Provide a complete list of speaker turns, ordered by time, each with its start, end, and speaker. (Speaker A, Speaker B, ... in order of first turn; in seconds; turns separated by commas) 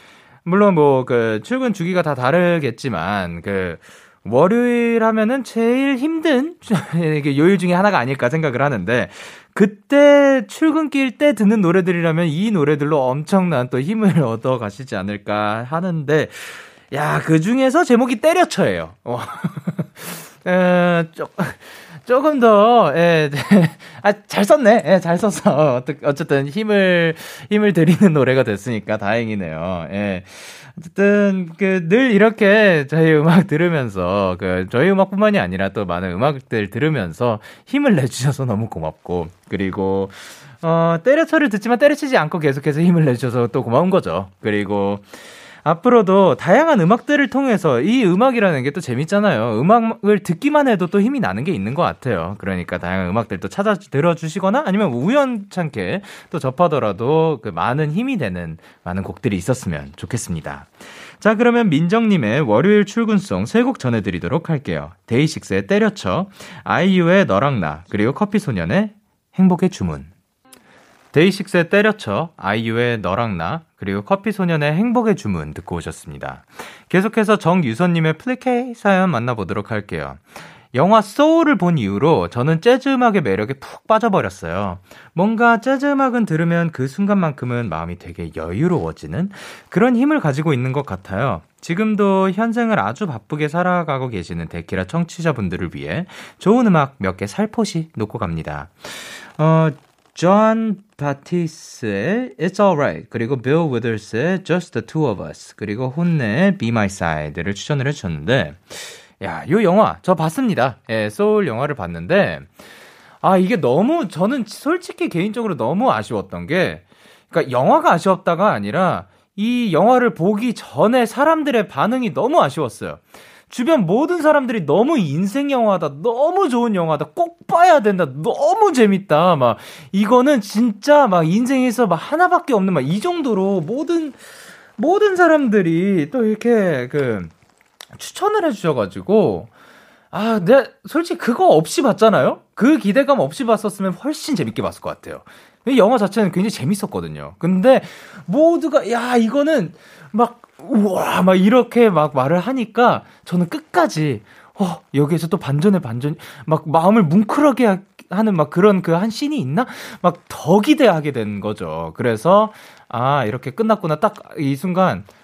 Speaker A: 0.4-70.1, Speaker A: 71.1-80.2, Speaker A: 80.7-112.5, Speaker A: 113.2-134.2, Speaker A: 134.8-137.3, Speaker A: 137.9-139.5, Speaker A: 140.1-165.1